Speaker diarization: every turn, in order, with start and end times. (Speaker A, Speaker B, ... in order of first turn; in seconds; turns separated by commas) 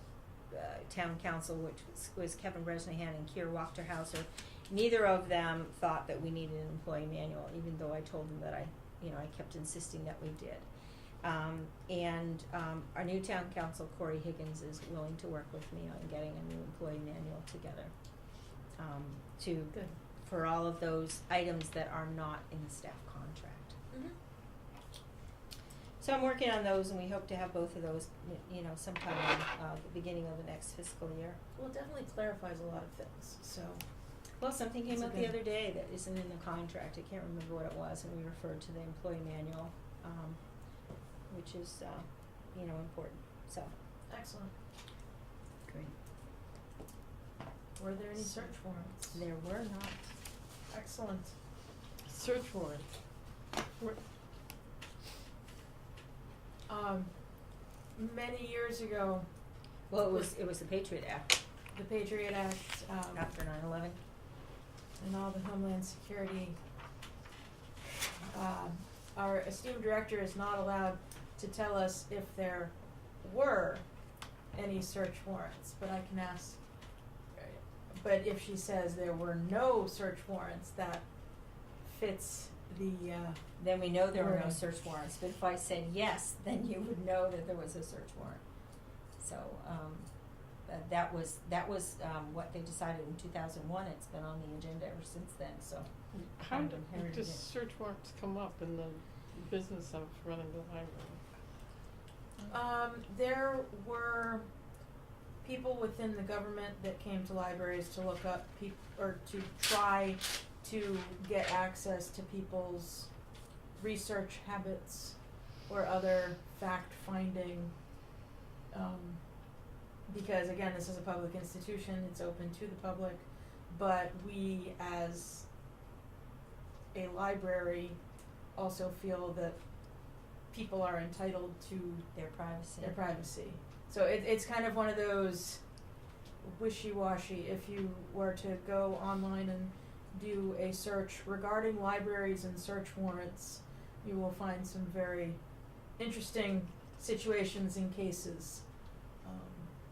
Speaker A: 0.5-10.7, Speaker A: 11.2-17.9, Speaker A: 18.8-23.8, Speaker A: 26.0-31.4, Speaker B: 31.5-33.8, Speaker A: 34.4-40.4, Speaker B: 34.9-35.4, Speaker A: 41.3-43.7, Speaker B: 44.1-44.5, Speaker B: 47.8-49.2, Speaker A: 48.2-48.5, Speaker A: 49.1-50.1, Speaker B: 50.7-51.3, Speaker C: 52.1-52.9, Speaker B: 56.7-57.1, Speaker B: 58.0-59.3, Speaker A: 59.9-61.3, Speaker B: 61.7-63.2, Speaker A: 63.1-64.0, Speaker B: 65.0-66.5, Speaker B: 68.3-73.8, Speaker B: 74.5-76.6, Speaker B: 77.3-81.0, Speaker B: 81.8-83.4, Speaker A: 83.6-88.4, Speaker B: 84.1-84.6, Speaker A: 89.2-90.1, Speaker A: 90.6-95.9, Speaker C: 96.1-101.2, Speaker A: 96.5-97.4, Speaker B: 102.5-104.5, Speaker B: 105.4-113.1, Speaker B: 113.8-115.2, Speaker B: 115.7-117.7, Speaker B: 118.7-119.2, Speaker B: 120.1-125.5, Speaker B: 126.9-128.0, Speaker B: 128.5-129.6, Speaker B: 130.5-132.1, Speaker A: 132.1-133.1, Speaker B: 132.8-135.6, Speaker B: 136.4-145.4, Speaker B: 146.0-148.6, Speaker B: 149.2-149.7